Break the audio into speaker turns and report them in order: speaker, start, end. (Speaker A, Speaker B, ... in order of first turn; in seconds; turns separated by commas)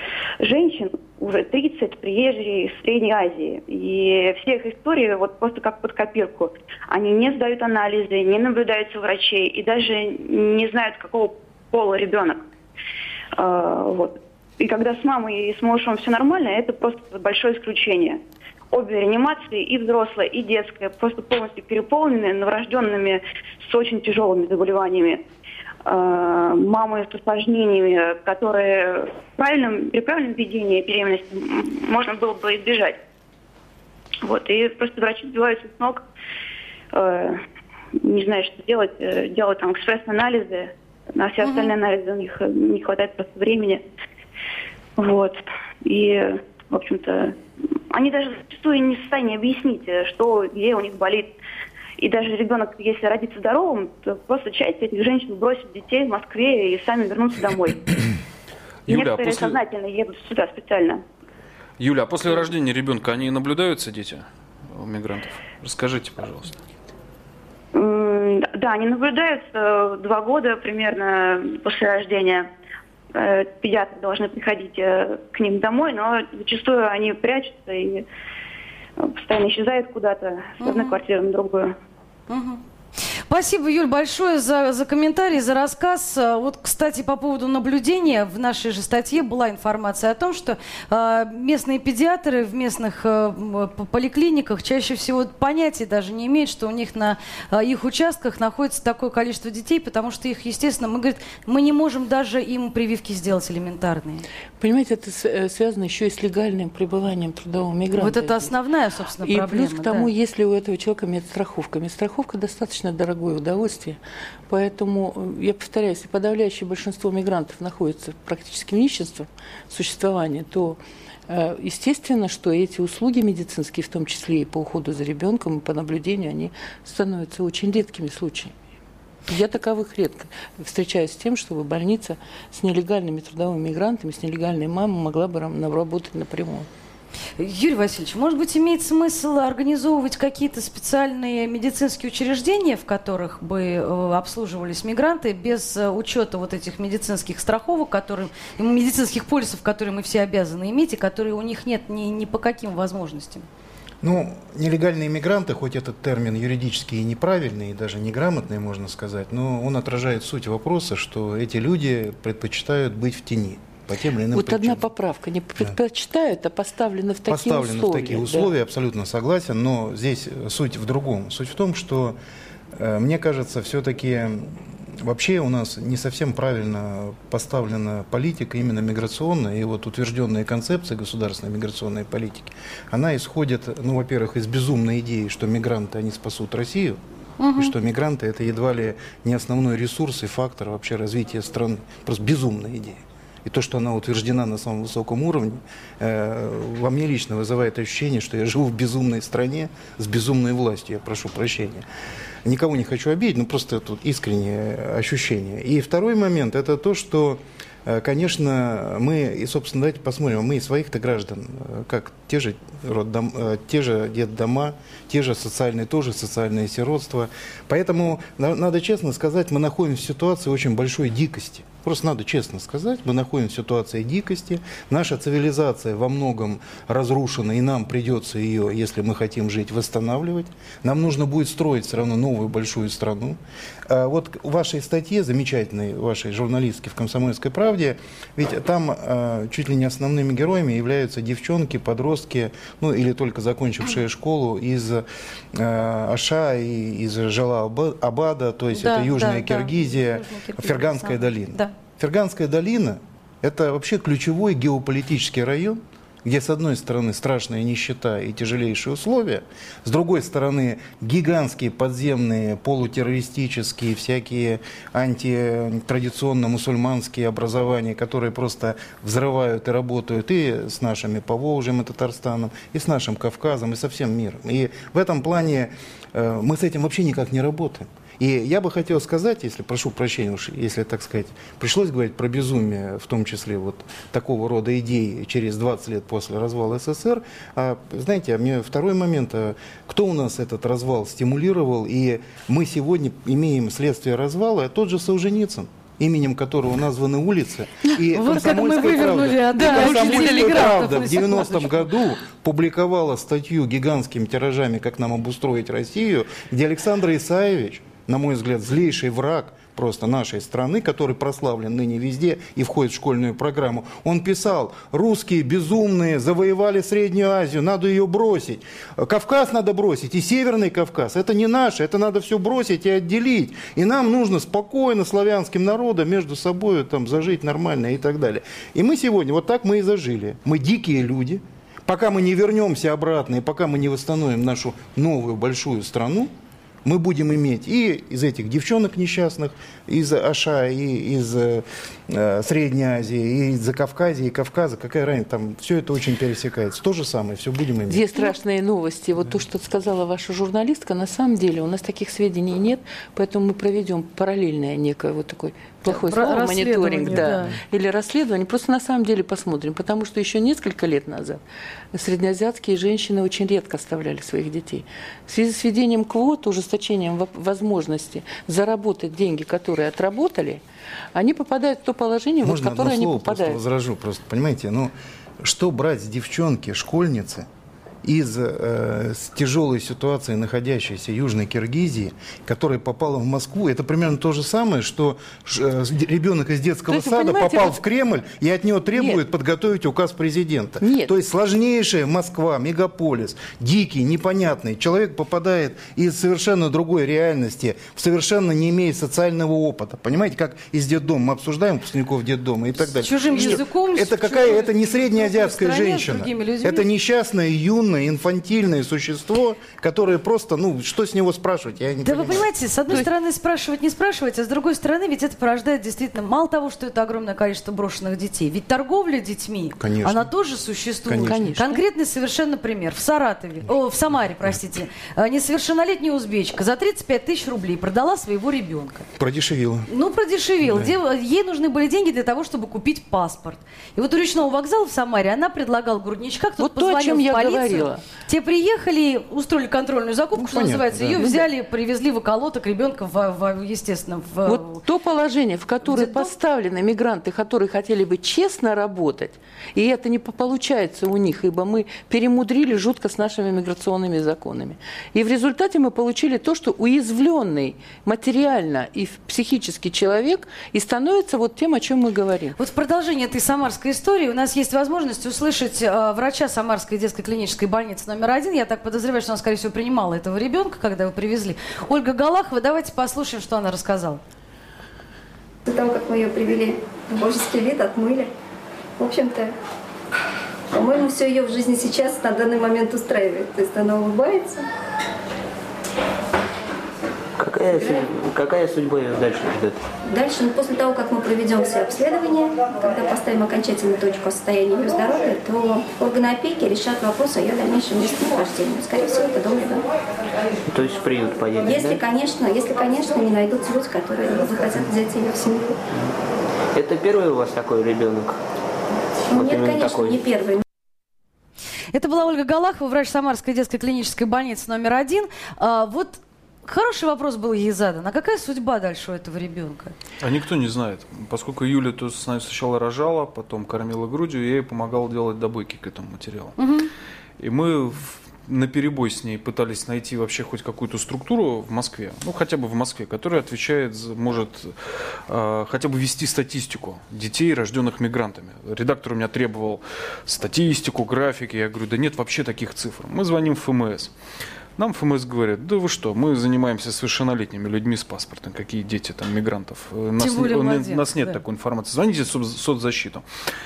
Speaker A: 0.4-12.4, Speaker A: 13.3-18.2, Speaker A: 18.7-25.2, Speaker A: 25.8-33.0, Speaker A: 34.2-36.0, Speaker A: 36.9-37.4, Speaker A: 38.0-43.8, Speaker B: 41.4-41.7, Speaker A: 45.0-47.4, Speaker A: 47.9-51.3, Speaker A: 52.0-57.9, Speaker C: 58.9-59.6, Speaker A: 58.9-61.0, Speaker C: 61.8-66.6, Speaker A: 67.7-72.5, Speaker A: 73.1-78.0, Speaker A: 79.0-81.8, Speaker B: 80.6-81.0, Speaker B: 82.3-82.6, Speaker B: 83.3-104.2, Speaker D: 104.6-108.5, Speaker B: 108.0-110.1, Speaker D: 109.2-128.6, Speaker D: 129.3-136.7, Speaker B: 137.4-153.4, Speaker E: 154.0-164.8, Speaker D: 164.3-168.5, Speaker E: 167.3-172.2, Speaker E: 172.7-187.0, Speaker B: 187.4-187.7, Speaker E: 187.6-201.8, Speaker E: 202.4-336.3, Speaker B: 248.7-251.7, Speaker B: 298.1-301.8, Speaker D: 299.6-300.9, Speaker E: 336.8-348.0, Speaker D: 347.9-370.6, Speaker B: 355.9-357.5, Speaker D: 371.1-373.6, Speaker E: 372.4-377.5, Speaker E: 378.0-413.1, Speaker D: 386.9-387.8, Speaker D: 388.9-389.2, Speaker D: 390.8-391.1, Speaker B: 402.8-406.9, Speaker B: 412.0-429.1, Speaker E: 419.8-420.3, Speaker E: 421.1-421.5, Speaker D: 421.2-421.8, Speaker E: 429.2-429.9, Speaker B: 429.9-444.8, Speaker E: 430.6-430.9, Speaker D: 436.6-438.0, Speaker E: 440.3-441.3, Speaker D: 444.4-462.5, Speaker B: 445.8-446.3, Speaker B: 462.6-474.2, Speaker F: 475.6-478.3, Speaker F: 479.0-479.5, Speaker F: 480.7-484.6, Speaker G: 487.4-489.8, Speaker F: 490.1-499.9, Speaker G: 500.7-502.0, Speaker F: 501.6-505.8, Speaker G: 506.7-508.4, Speaker F: 509.3-510.6, Speaker G: 509.3-510.2, Speaker B: 511.9-519.9, Speaker C: 520.2-526.5, Speaker B: 526.6-526.9, Speaker C: 527.4-534.8, Speaker C: 535.3-544.1, Speaker C: 544.8-553.2, Speaker B: 550.2-551.4